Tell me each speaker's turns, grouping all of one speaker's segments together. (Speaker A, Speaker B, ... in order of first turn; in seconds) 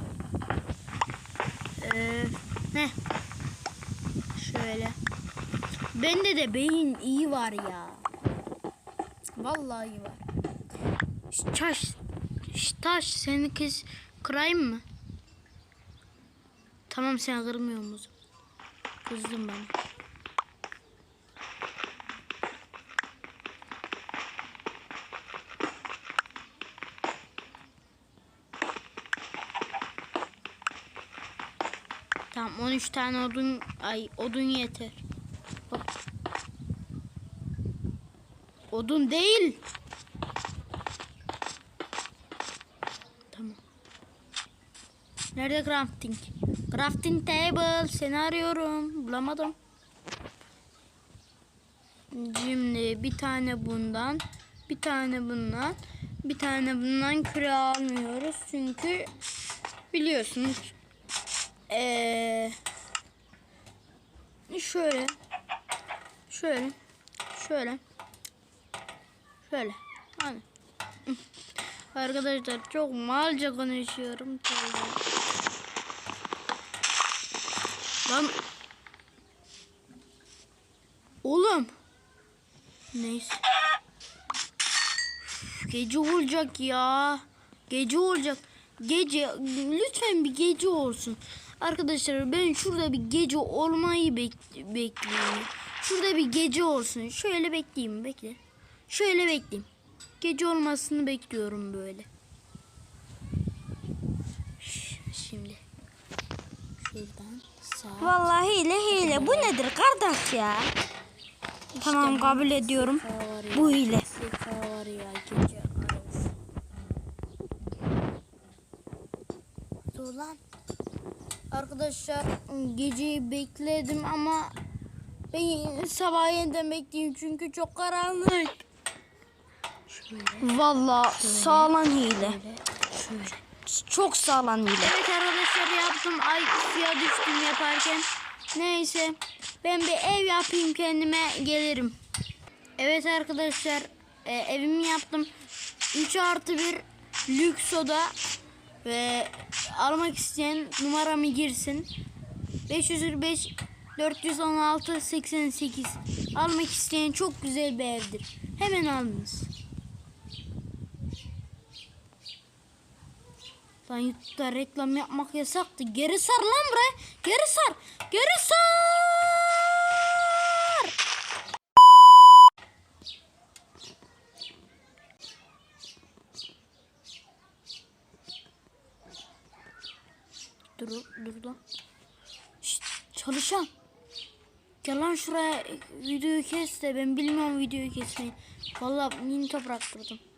Speaker A: 1.8-3.0, 4.3-5.0, 5.9-8.1, 9.4-10.2, 11.3-12.0, 12.5-14.8, 16.9-18.1, 19.0-19.7, 32.3-35.0, 38.7-39.6, 43.3-43.6, 45.3-49.5, 52.1-59.1, 59.9-60.7, 61.7-62.6, 64.5-65.1, 66.3-66.8, 67.3-67.8, 69.4-70.4, 71.9-75.0, 78.1-78.3, 81.2-81.7, 82.9-83.4, 85.2-99.7, 100.2-102.1, 104.6-105.6, 106.8-108.2, 108.9-109.5, 111.8-116.3, 119.9-120.4, 121.5-124.5, 125.3-128.6, 129.9-130.5, 131.1-133.4, 134.8-142.0, 142.8-145.3, 145.9-148.1, 148.8-151.9, 152.7-159.5, 163.8-170.9, 180.8-181.6, 182.6-183.7, 184.8-190.2
Speaker B: 108.0-110.7, 111.8-114.0, 130.4-132.4, 133.6-134.9